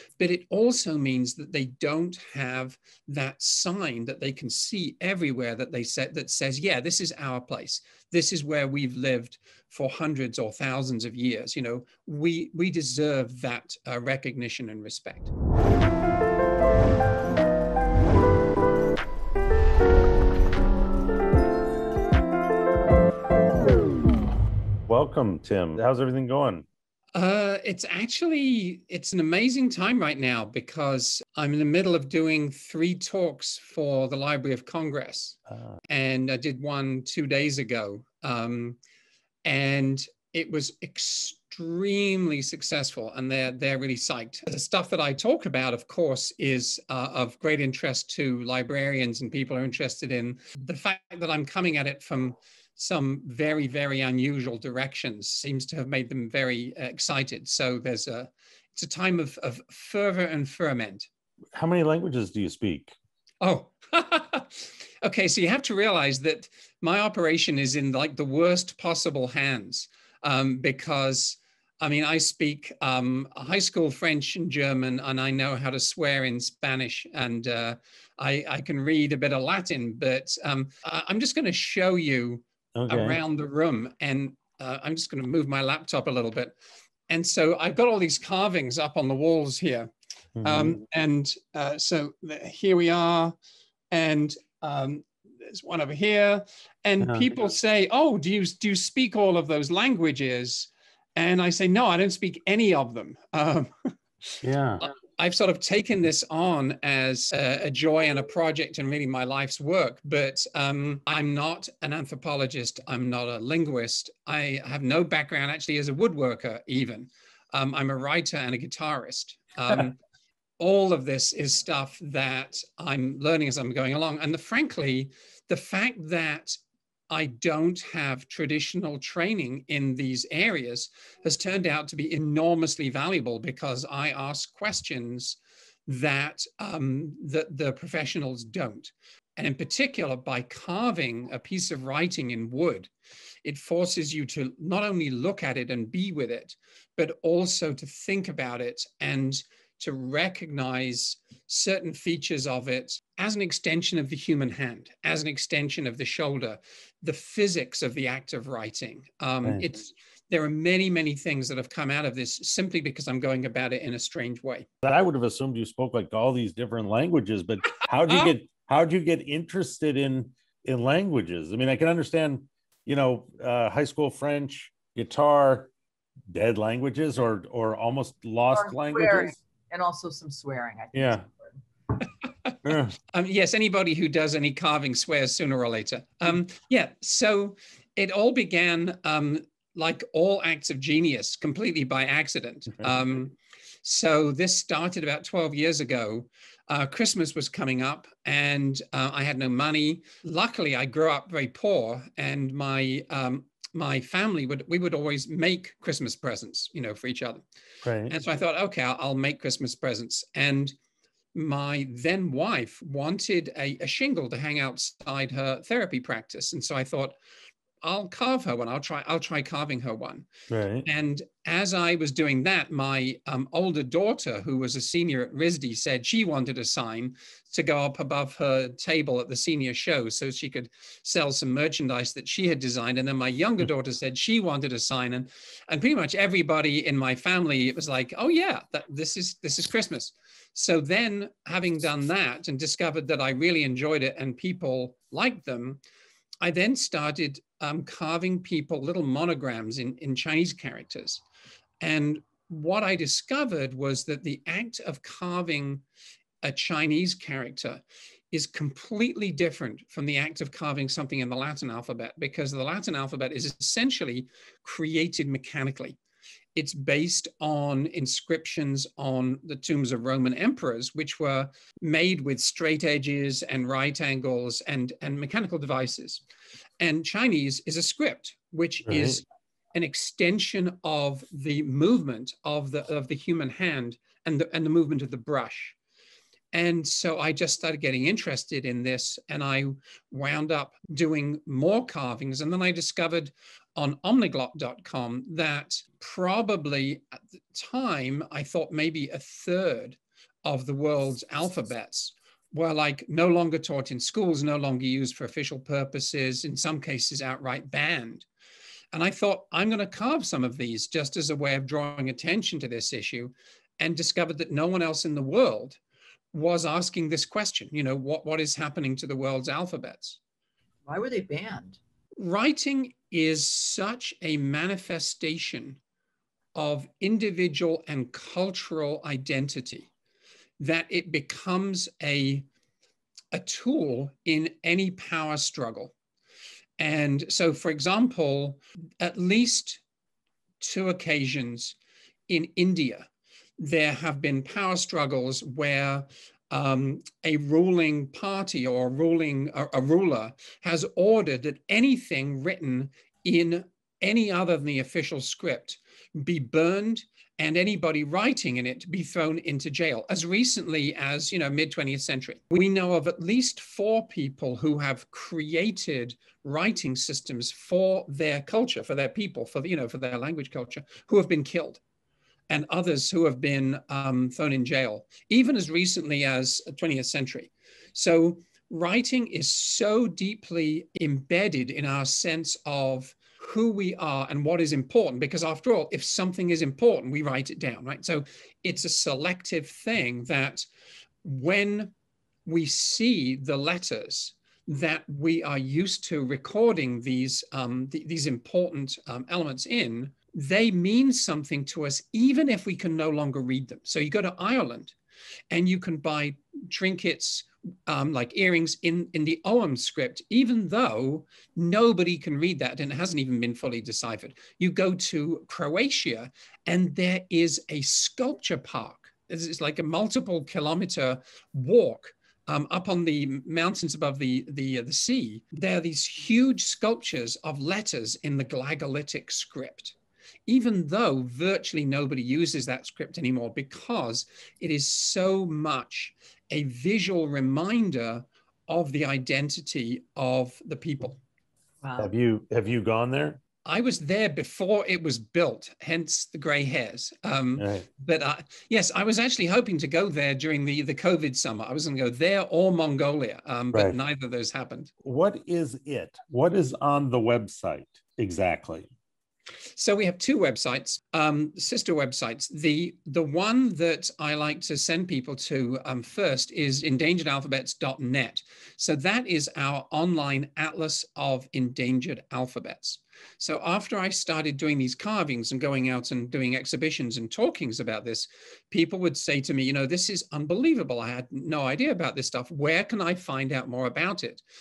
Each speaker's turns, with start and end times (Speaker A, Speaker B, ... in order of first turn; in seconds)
Speaker A: 0.2-15.3, 27.1-35.4, 35.9-38.8, 39.4-61.1, 63.4-86.5, 87.1-89.9, 90.4-93.3, 93.9-120.0, 120.6-142.9, 143.4-164.7, 167.8-168.3, 183.1-207.4, 208.1-210.8, 211.3-217.2, 217.8-220.3, 220.8-245.8, 246.4-251.2, 251.8-255.8, 256.4-266.0, 266.5-276.2, 276.8-285.8, 286.5-308.2, 308.9-315.8, 316.3-320.2, 322.2-325.8, 326.5-329.9, 330.6-332.4, 333.3-335.9, 336.8-339.8, 340.6-341.8, 342.3-371.8, 372.5-390.6, 391.2-391.9, 392.4-404.9, 405.5-429.9, 430.5-441.2, 443.6-454.9, 459.8-484.4
Speaker B: 24.9-26.6, 35.5-35.8, 61.5-62.9, 82.7-83.2, 90.3-90.8, 97.0-97.3, 104.4-104.8, 159.4-159.7, 164.8-175.7, 176.3-179.3, 180.9-181.2, 182.6-182.9, 207.8-208.2, 220.5-220.8, 278.9-279.2, 442.0-443.4, 447.6-447.9, 455.0-458.9
Speaker C: 178.5-181.6, 320.9-321.8, 441.8-442.1